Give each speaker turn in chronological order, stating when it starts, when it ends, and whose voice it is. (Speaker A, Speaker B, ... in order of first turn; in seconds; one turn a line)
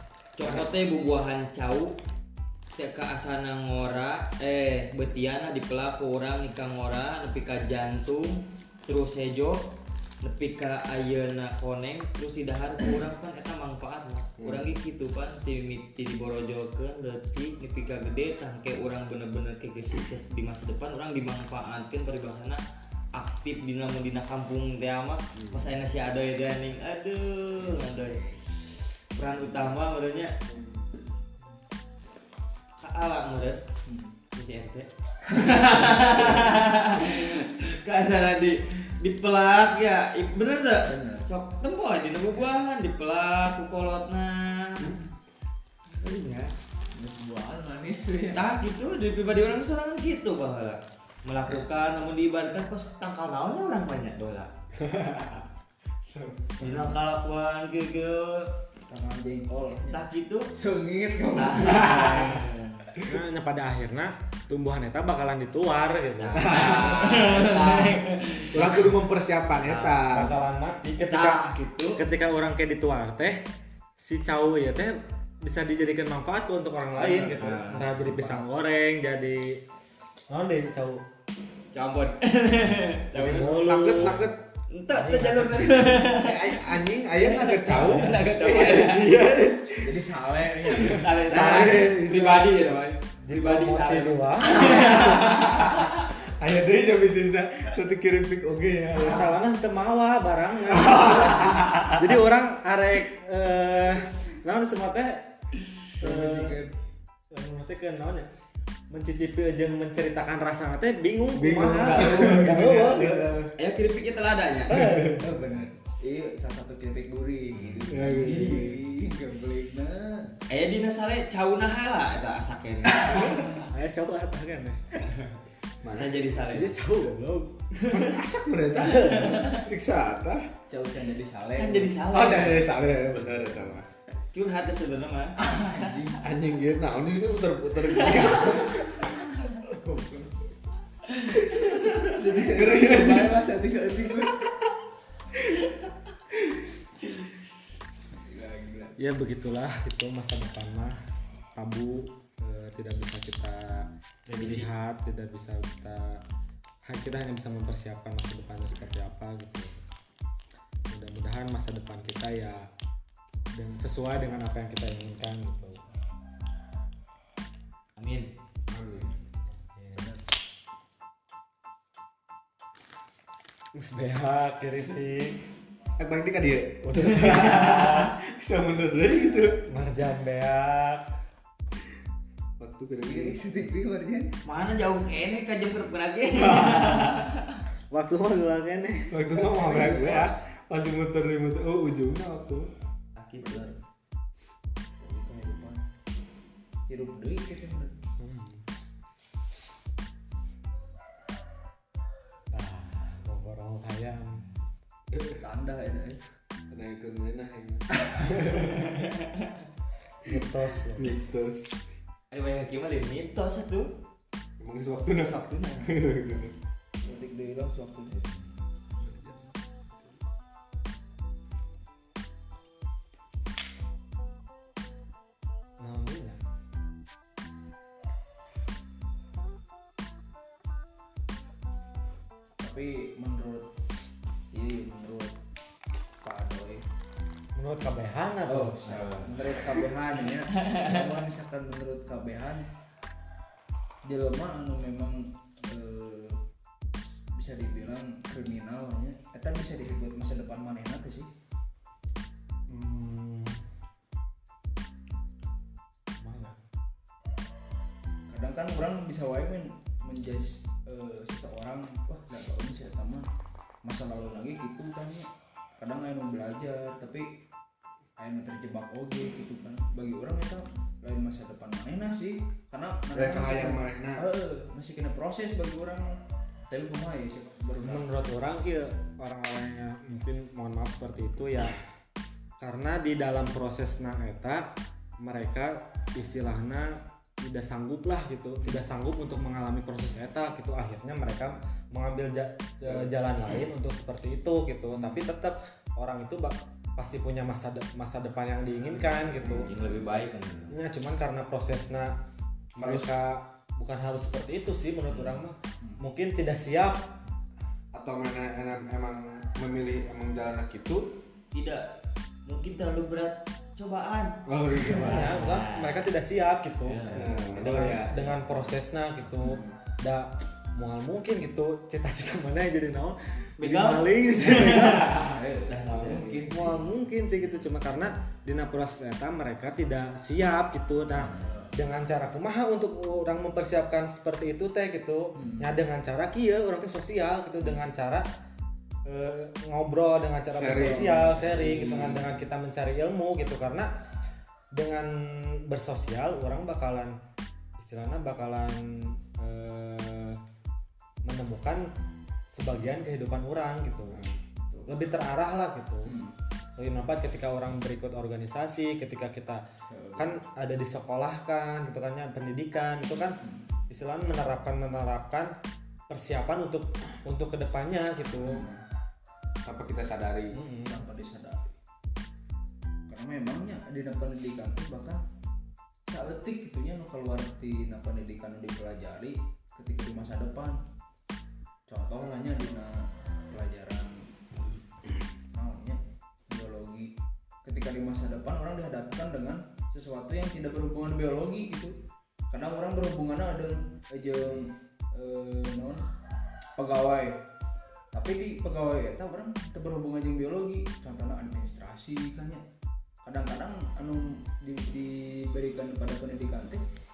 Speaker A: 0.4-1.9
Speaker A: 2.8-9.6
Speaker A: 10.2-22.6
Speaker B: 14.4-14.7
Speaker A: 23.2-28.2
Speaker B: 25.4-25.7
Speaker C: 27.9-28.4
Speaker A: 29.1-30.3
Speaker B: 30.5-30.9
Speaker A: 32.8-33.6
Speaker C: 33.9-34.1
Speaker A: 34.3-45.0
Speaker C: 35.9-36.2
Speaker C: 40.9-41.3
Speaker A: 46.0-46.5
Speaker C: 46.9-48.5
Speaker A: 48.3-54.5
Speaker B: 54.8-55.5
Speaker B: 56.1-56.7
Speaker A: 56.6-58.5
Speaker C: 58.9-60.0
Speaker A: 59.9-60.5
Speaker C: 60.5-62.3
Speaker A: 61.4-62.9
Speaker B: 61.7-62.4
Speaker D: 63.0-66.7
Speaker A: 66.2-68.9
Speaker B: 66.3-70.3
Speaker A: 69.6-70.0
Speaker D: 70.0-73.5
Speaker A: 71.1-72.0
Speaker D: 74.0-79.6
Speaker A: 77.0-78.4
Speaker D: 80.3-81.0
Speaker A: 81.7-84.2
Speaker D: 83.1-84.3
Speaker B: 83.2-84.4
Speaker A: 84.7-89.1
Speaker D: 84.9-86.1
Speaker B: 86.1-90.0
Speaker C: 87.7-88.1
Speaker C: 89.8-91.1
Speaker B: 90.7-92.8
Speaker A: 90.8-95.9
Speaker D: 93.2-94.9
Speaker B: 94.6-99.3
Speaker D: 99.0-105.3
Speaker B: 100.7-102.0
Speaker C: 106.0-106.7
Speaker D: 106.0-106.6
Speaker D: 107.3-108.3
Speaker D: 108.9-113.4
Speaker B: 111.3-113.5
Speaker A: 113.6-114.9
Speaker D: 114.7-115.2
Speaker B: 114.8-115.2
Speaker C: 115.2-120.3
Speaker A: 117.5-117.9
Speaker B: 117.9-118.8
Speaker A: 120.5-123.6
Speaker D: 123.6-125.1
Speaker B: 125.8-126.2
Speaker A: 125.9-126.7
Speaker D: 126.5-127.6
Speaker B: 127.9-130.5
Speaker D: 128.8-129.3
Speaker A: 129.0-129.6
Speaker C: 130.7-132.0
Speaker A: 131.6-132.7
Speaker B: 132.1-133.9
Speaker A: 134.3-135.7
Speaker C: 135.4-136.2
Speaker B: 136.1-139.2
Speaker C: 138.2-138.5
Speaker C: 139.4-140.3
Speaker C: 141.4-144.5
Speaker B: 141.5-143.4
Speaker C: 148.2-149.0
Speaker D: 149.0-151.0
Speaker D: 151.5-156.2
Speaker A: 154.3-154.7
Speaker D: 156.9-159.8
Speaker D: 160.9-162.7
Speaker D: 163.5-165.8
Speaker A: 168.0-168.3
Speaker B: 168.7-169.2
Speaker D: 169.6-170.1
Speaker D: 173.7-175.4
Speaker B: 176.0-179.7
Speaker D: 176.8-178.1
Speaker D: 179.3-181.1
Speaker B: 182.6-183.4
Speaker C: 183.1-184.3
Speaker A: 184.4-187.6
Speaker B: 186.5-187.1
Speaker D: 187.9-190.3
Speaker B: 189.1-192.7
Speaker A: 193.2-193.7
Speaker C: 193.4-193.8
Speaker C: 195.0-195.8
Speaker C: 196.9-198.0
Speaker D: 198.2-198.6
Speaker D: 202.5-204.5
Speaker C: 205.4-206.2
Speaker B: 206.7-209.1
Speaker A: 208.8-209.5
Speaker D: 210.2-211.2
Speaker B: 210.9-211.8
Speaker A: 212.3-213.9
Speaker B: 214.6-216.5
Speaker C: 215.1-215.9
Speaker C: 217.0-218.2
Speaker B: 219.0-219.5
Speaker D: 225.8-226.4
Speaker C: 232.6-233.7
Speaker C: 234.5-235.4
Speaker C: 236.2-236.8
Speaker D: 237.6-239.2
Speaker C: 238.5-242.7
Speaker A: 240.6-240.9
Speaker C: 244.1-246.4
Speaker C: 247.4-251.3
Speaker D: 252.7-253.7
Speaker D: 256.2-256.6
Speaker C: 258.3-263.3
Speaker C: 263.8-267.3
Speaker C: 268.2-276.2
Speaker B: 273.1-274.3
Speaker C: 276.7-278.1
Speaker D: 277.8-281.8
Speaker D: 282.6-284.7
Speaker D: 285.2-299.7
Speaker A: 299.4-300.7
Speaker B: 299.4-299.8
Speaker D: 300.7-302.2
Speaker B: 302.8-303.1
Speaker D: 302.8-307.1
Speaker A: 305.1-305.4
Speaker B: 307.9-311.2
Speaker A: 311.5-311.9
Speaker A: 312.5-316.0
Speaker B: 314.5-315.4
Speaker D: 315.0-325.2
Speaker A: 316.9-318.1
Speaker C: 317.1-317.9
Speaker B: 317.1-318.2
Speaker C: 319.4-319.8
Speaker A: 323.6-326.8
Speaker C: 325.2-326.6
Speaker B: 325.9-326.2
Speaker D: 326.1-338.3
Speaker C: 331.3-331.7
Speaker C: 335.4-335.7
Speaker D: 339.1-343.9
Speaker B: 340.5-341.4
Speaker C: 340.7-342.2
Speaker D: 344.7-347.2
Speaker D: 347.8-350.4
Speaker D: 351.2-351.9
Speaker D: 352.5-354.2
Speaker B: 354.1-354.4
Speaker C: 354.7-354.9
Speaker D: 354.9-356.2
Speaker C: 356.1-356.4
Speaker D: 356.8-359.6
Speaker C: 359.9-360.3
Speaker D: 360.2-363.4
Speaker C: 363.4-363.7
Speaker D: 363.9-365.5
Speaker D: 366.1-368.7
Speaker C: 368.4-368.8
Speaker B: 369.6-370.6
Speaker D: 370.5-371.0
Speaker C: 370.9-371.7
Speaker C: 373.1-375.2
Speaker C: 376.1-380.8
Speaker C: 381.9-384.5
Speaker C: 385.5-387.1
Speaker C: 387.6-391.9
Speaker C: 392.5-396.0
Speaker C: 396.8-397.4
Speaker C: 398.1-402.6
Speaker C: 403.2-406.9